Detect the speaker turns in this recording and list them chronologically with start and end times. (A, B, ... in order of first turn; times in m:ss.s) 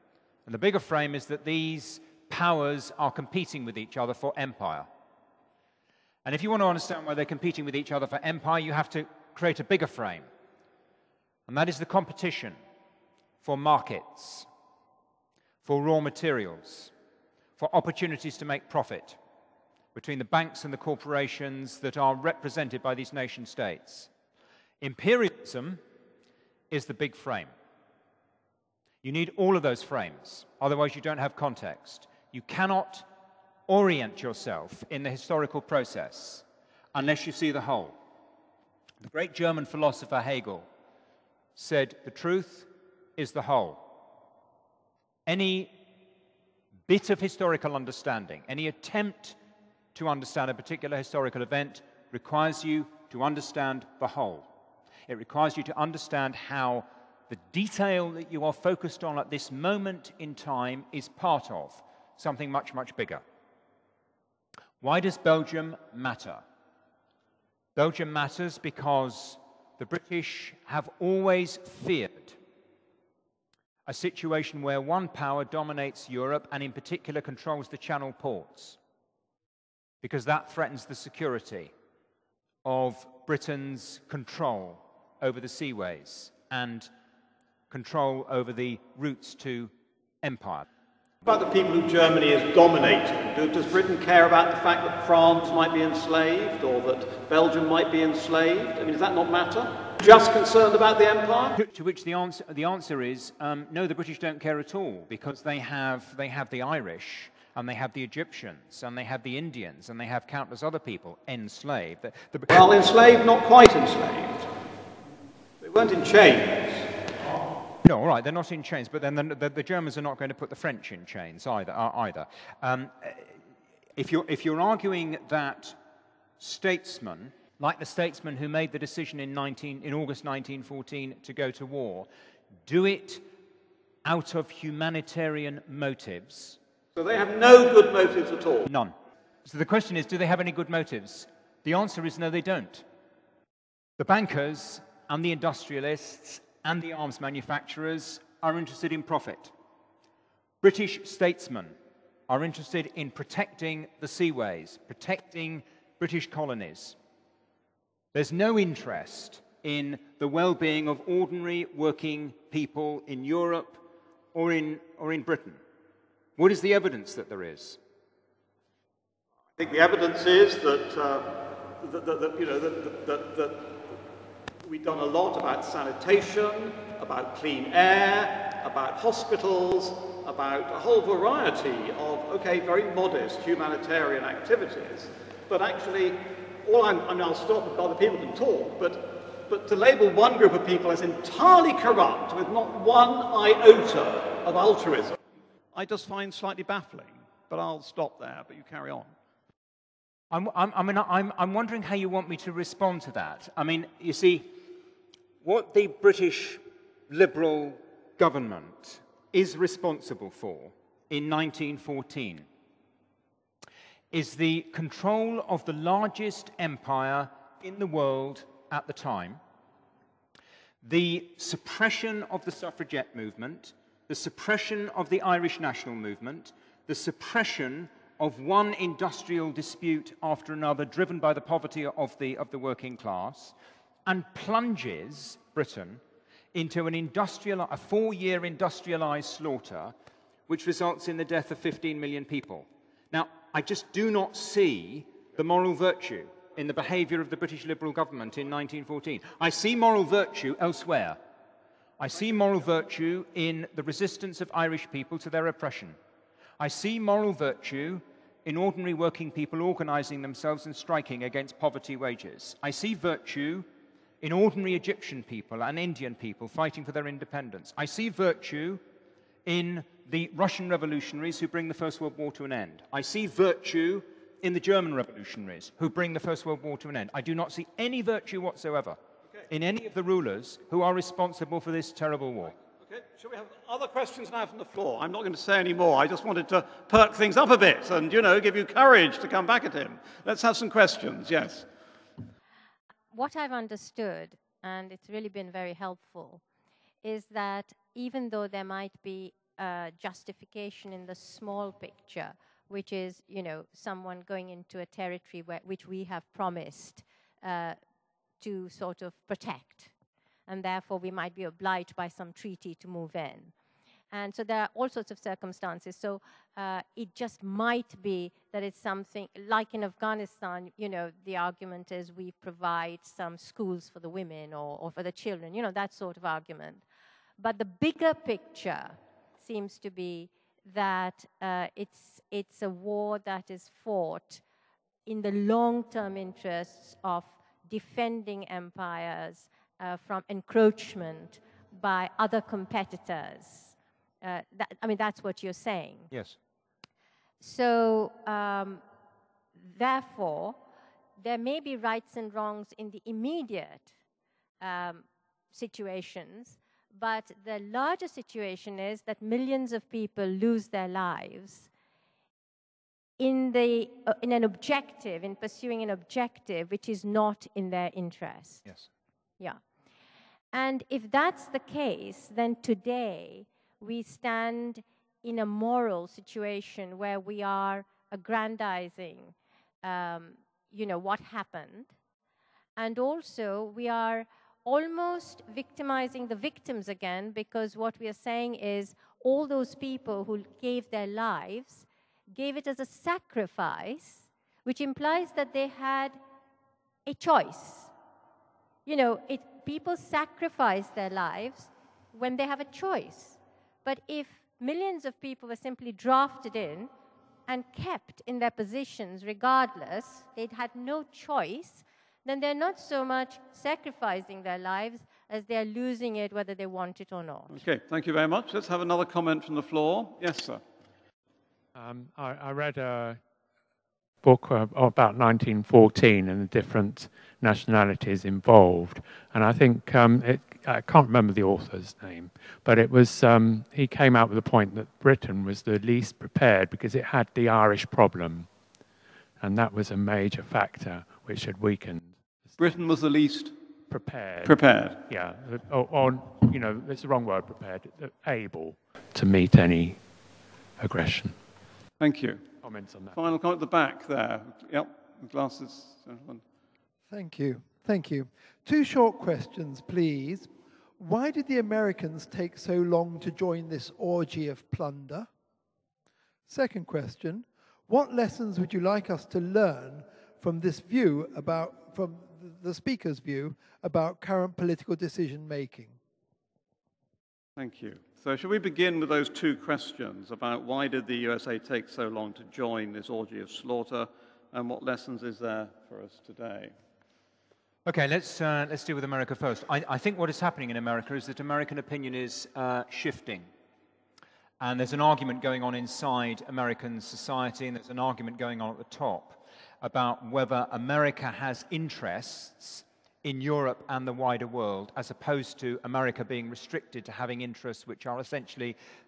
0:00.5-0:04.9 A
0:06.2-0:10.3 A
0:11.5-0:12.6 A
0:13.4-0:14.5 A
0:15.6-0:16.9 A
0:17.6-0:19.2 A
0:20.0-0:24.1 A
0:24.8-0:25.8 A
0:26.7-0:27.5 A
0:29.0-0:33.1 A
0:33.7-0:38.0 A
0:39.0-0:40.7 A
0:41.6-0:44.0 A
0:45.3-0:45.7 A
0:46.9-0:49.4 A
0:49.9-0:54.5 A
0:55.1-1:03.2 A
1:04.8-1:06.4 A
1:07.8-1:12.4 A
1:13.9-1:18.8 A
1:20.0-1:21.7 A
1:22.6-1:26.9 A
1:27.7-1:30.6 A
1:31.2-1:41.6 B
1:41.6-1:52.7 A
1:52.5-1:54.5 B
1:55.6-1:56.9 B
1:57.8-2:03.4 A
2:04.0-2:05.8 A
2:06.4-2:12.1 A
2:12.7-2:13.2 A
2:14.0-2:16.6 A
2:17.0-2:18.7 B
2:18.7-2:22.8 A
2:24.0-2:29.5 A
2:30.6-2:31.8 A
2:32.3-2:37.0 A
2:38.1-2:45.6 A
2:46.4-2:47.8 A
2:49.6-2:54.0 B
2:54.6-3:15.2 B
3:15.7-3:19.1 B
3:20.3-3:24.5 A
3:25.4-3:32.5 A
3:34.1-3:39.4 A
3:40.8-3:53.6 A
3:54.1-3:56.0 A
3:56.5-3:59.9 A
4:00.5-4:11.2 A
4:12.0-4:16.0 A
4:16.6-4:23.7 A
4:24.2-4:28.8 A
4:29.4-4:39.0 A
4:39.5-4:42.6 A
4:42.8-4:51.7 B
4:53.1-4:56.4 C
4:57.0-5:07.8 C
5:08.4-5:09.9 C
5:10.5-5:13.5 C
5:14.1-5:26.8 C
5:27.4-5:34.4 C
5:35.1-5:46.1 C
5:46.1-5:46.4 A
5:47.4-5:48.8 C
5:49.6-5:50.6 C
5:51.2-5:53.9 C
5:54.6-6:01.7 C
6:03.2-6:08.7 C
6:10.5-6:21.9 C
6:22.8-6:36.2 C
6:37.1-6:37.9 C
6:38.9-6:46.9 C
6:47.5-6:57.6 C
6:57.5-7:00.6 B
7:01.7-7:03.3 D
7:04.2-7:18.6 D
7:19.4-7:22.6 D
7:22.6-7:23.5 B
7:23.9-7:30.2 D
7:24.4-7:25.0 B
7:30.8-7:31.5 D
7:32.0-7:36.4 B
7:32.6-7:33.2 D
7:37.1-7:45.3 E
7:46.5-7:56.0 E
7:57.6-8:06.7 B
8:07.9-8:13.5 A
8:14.6-8:28.8 A